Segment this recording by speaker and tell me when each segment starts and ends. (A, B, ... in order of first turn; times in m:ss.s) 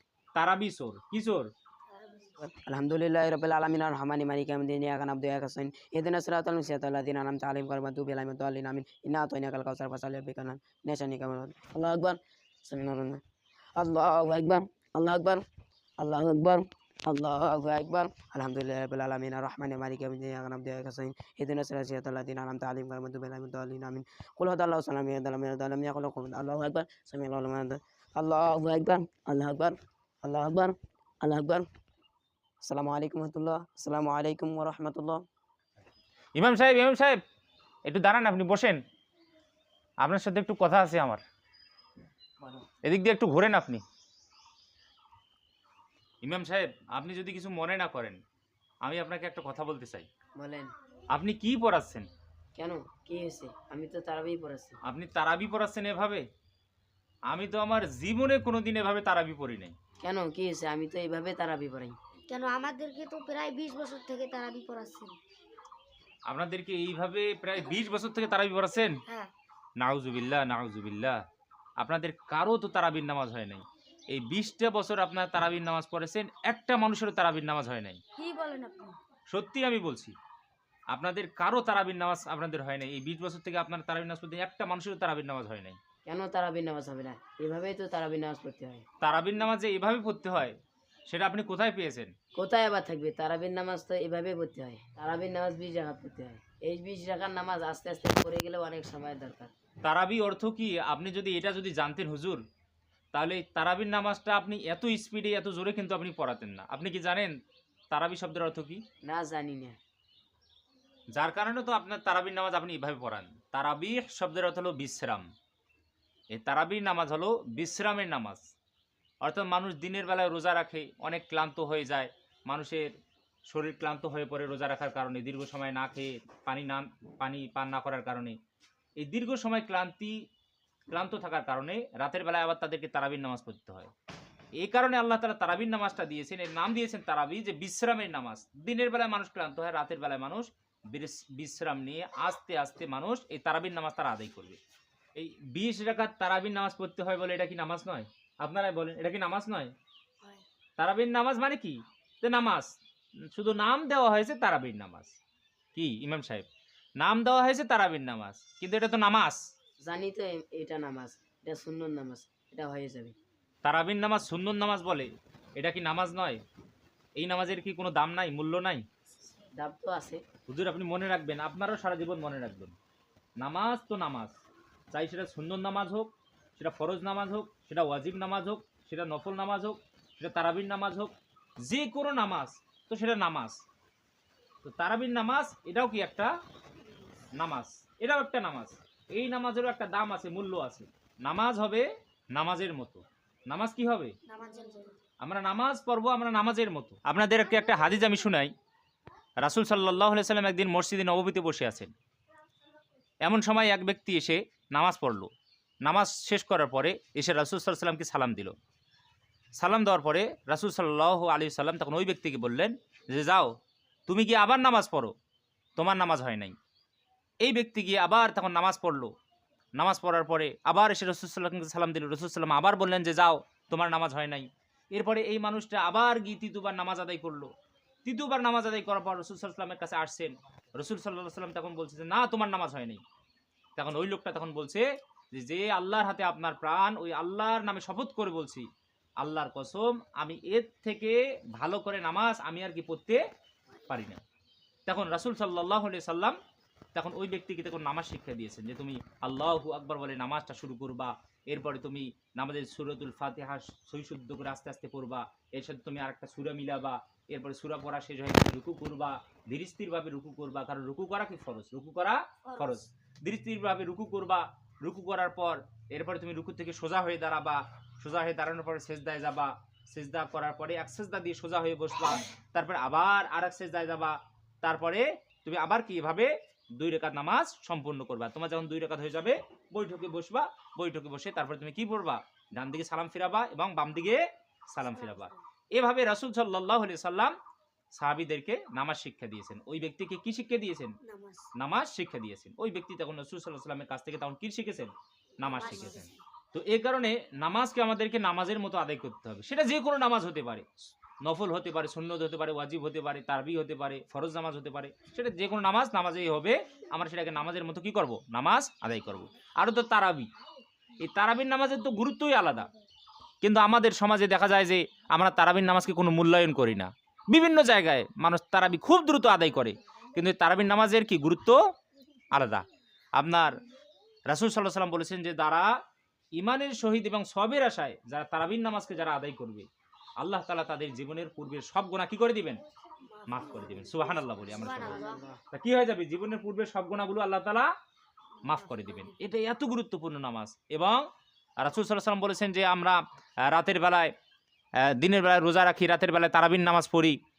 0:00.4-0:01.5 A
0:01.9-0:02.3 B
0:02.4-0:13.2 C
0:13.8-0:15.4 C
0:16.0-0:31.7 C
0:32.6-0:35.2 C
0:36.4-0:37.2 A
0:37.9-0:38.8 A
0:40.0-0:41.2 A
0:42.4-0:42.7 C
0:42.8-0:43.8 A
0:46.2-0:48.2 A
0:48.8-0:50.1 A
0:50.4-0:50.7 C
0:51.1-0:52.1 A
0:52.6-0:54.8 C
0:54.8-0:56.3 A
0:57.3-0:59.8 A
1:00.0-1:02.0 C
1:02.3-1:05.2 B
1:06.3-1:09.0 A
1:09.8-1:11.2 A
1:11.8-1:18.0 A
1:18.2-1:19.0 B
1:19.3-1:20.2 A
1:20.9-1:25.8 A
1:26.0-1:28.8 C
1:29.0-1:30.6 A
1:31.1-1:32.1 A
1:32.4-1:39.5 C
1:39.8-1:42.4 A
1:43.1-1:47.4 A
1:47.9-1:48.8 A
1:49.0-1:49.8 C
1:51.2-1:55.3 A
1:56.3-1:58.5 A
1:59.2-2:02.9 A
2:03.5-2:08.4 A
2:09.0-2:10.2 A
2:10.9-2:13.9 A
2:14.6-2:24.6 A
2:25.2-2:29.7 A
2:30.8-2:32.7 A
2:33.3-2:35.2 A
2:35.7-2:36.5 A
2:37.0-2:39.4 A
2:39.8-2:43.2 C
2:43.6-2:46.4 A
2:47.2-2:48.9 A
2:49.6-2:50.2 C
2:50.5-2:52.8 A
2:53.4-2:54.4 A
2:54.9-3:03.6 A
3:04.6-3:06.3 A
3:07.3-3:14.2 A
3:14.3-3:15.0 B
3:15.2-3:18.5 A
3:19.4-3:21.9 A
3:23.2-3:25.3 A
3:25.8-3:28.5 A
3:29.6-3:33.6 A
3:34.1-3:35.1 A
3:35.8-3:36.6 A
3:37.4-3:39.1 A
3:39.8-3:47.5 A
3:48.0-3:53.0 A
3:53.8-3:58.7 A
3:59.2-4:03.2 A
4:03.9-4:04.2 A
4:04.9-4:06.4 A
4:06.9-4:47.4 A
4:22.5-4:22.8 B
4:44.9-4:45.3 B
4:48.0-4:51.0 A
4:51.0-4:51.5 B
4:51.6-5:00.7 A
4:55.4-4:56.2 B
5:01.2-5:10.3 A
5:11.0-5:12.7 A
5:13.4-5:21.6 A
5:22.3-5:23.6 A
5:24.3-5:25.7 A
5:26.4-5:29.7 A
5:30.2-5:32.6 A
5:33.2-5:35.3 B
5:33.3-5:37.7 A
5:34.7-5:35.4 C
5:38.4-5:41.0 A
5:38.5-5:39.1 B
5:41.6-5:44.1 A
5:44.8-5:47.2 A